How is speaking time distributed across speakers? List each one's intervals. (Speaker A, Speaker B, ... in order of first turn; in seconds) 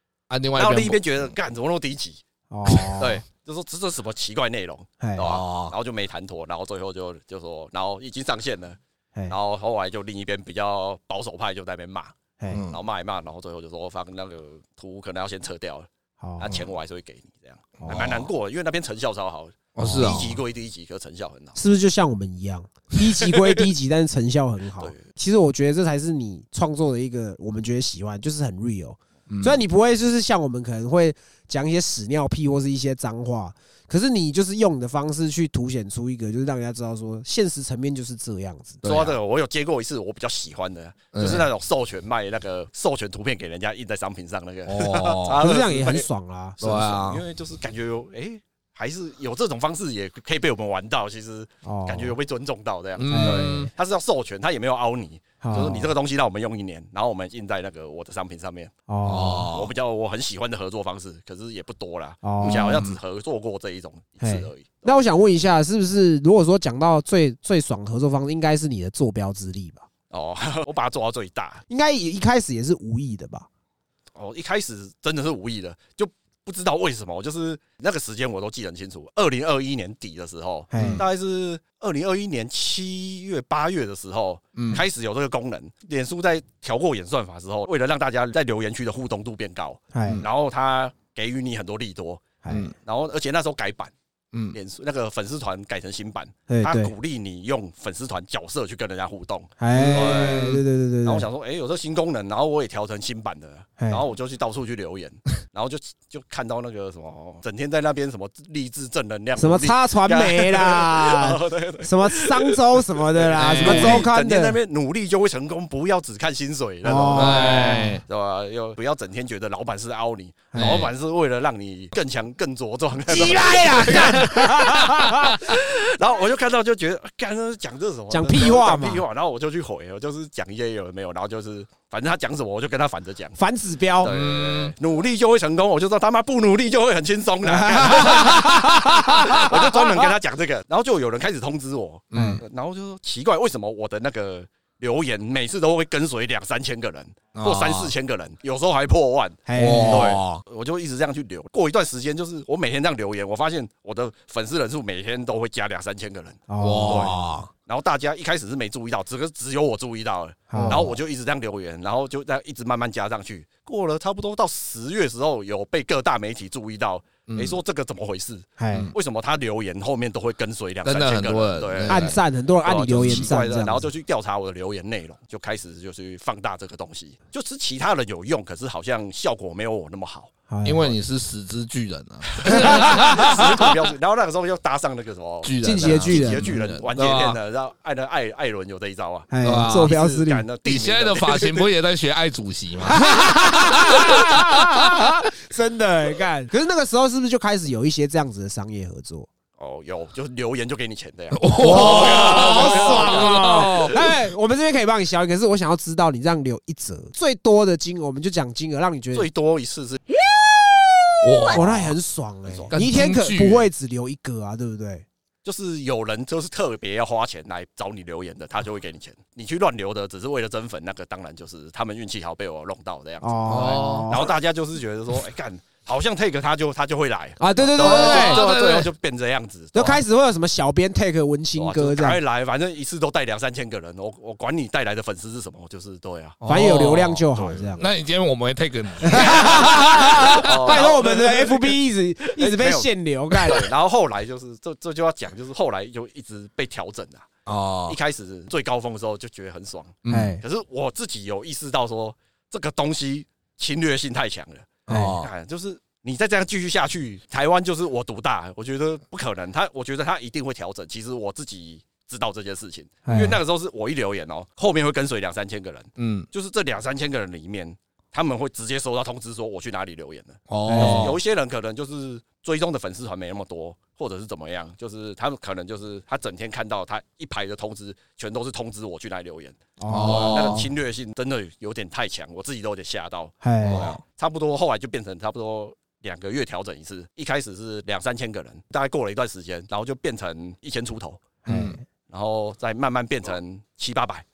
Speaker A: 0.3-1.3, 5.2-5.7, 12.5-12.8, 17.9-18.3, 19.7-20.4, 29.3-29.6, 38.8-39.1, 41.1-41.5, 44.6-45.4, 46.6-47.2, 53.0-53.7, 59.0-59.7, 62.4-63.0, 80.8-81.0, 84.5-84.8, 92.5-92.7, 99.7-100.6, 113.3-114.1, 117.1-118.0, 120.5-120.9, 134.0-134.7, 142.1-142.4, 147.3-147.9, 149.6-150.4, 156.6-157.5, 160.6-160.9, 167.3-167.6, 170.8-172.2, 172.9-173.3, 180.6-183.7, 185.4-187.4, 189.4-189.9, 190.6-195.2, 201.3-204.0, 211.2-211.9, 212.7-213.7, 223.5-224.1, 227.8-228.9, 236.4-240.9, 247.4-248.0, 250.0-250.3, 254.9-255.3, 266.0-266.3, 270.5-271.2, 279.9-280.7, 283.6-284.0, 291.5-291.8
Speaker B: 0.6-2.2, 3.0-12.1, 12.7-15.9, 16.4-21.6, 23.2-23.6, 38.8-46.1, 46.6-58.7, 59.5-65.0, 70.1-71.6, 74.1-93.9, 94.5-133.4, 134.0-180.3, 182.3-191.7, 199.6-203.9, 209.1-210.0, 212.4-212.7, 215.4-230.0, 231.6-236.4, 237.3-237.7, 239.1-239.7, 240.3-241.8, 242.3-247.3, 247.9-291.2, 292.1-294.2
Speaker C: 2.5-3.2, 5.0-5.3, 12.4-12.6, 16.2-16.6, 17.8-18.1, 19.8-20.2, 21.6-38.8, 45.3-46.6, 51.6-52.1, 53.1-53.7, 55.4-55.9, 58.9-59.5, 62.2-62.9, 64.2-69.8, 71.7-73.5, 80.7-81.0, 89.9-90.2, 92.4-92.7, 96.5-96.9, 99.6-101.3, 109.4-114.6, 116.8-118.0, 120.5-120.9, 123.1-125.5, 128.1-129.0, 133.4-134.1, 137.4-140.1, 142.1-142.4, 149.5-150.2, 156.5-157.2, 160.5-160.9, 168.6-168.9, 171.9-173.9, 180.5-180.9, 182.4-183.3, 185.6-186.6, 189.3-190.4, 192.8-199.3, 201.5-209.3, 211.4-215.1, 223.2-224.3, 227.4-228.4, 229.7-232.2, 236.5-237.9, 239.0-243.7, 250.1-250.4, 254.9-255.2, 263.0-263.4, 270.6-271.1, 279.8-280.6, 283.4-283.9, 291.4-291.8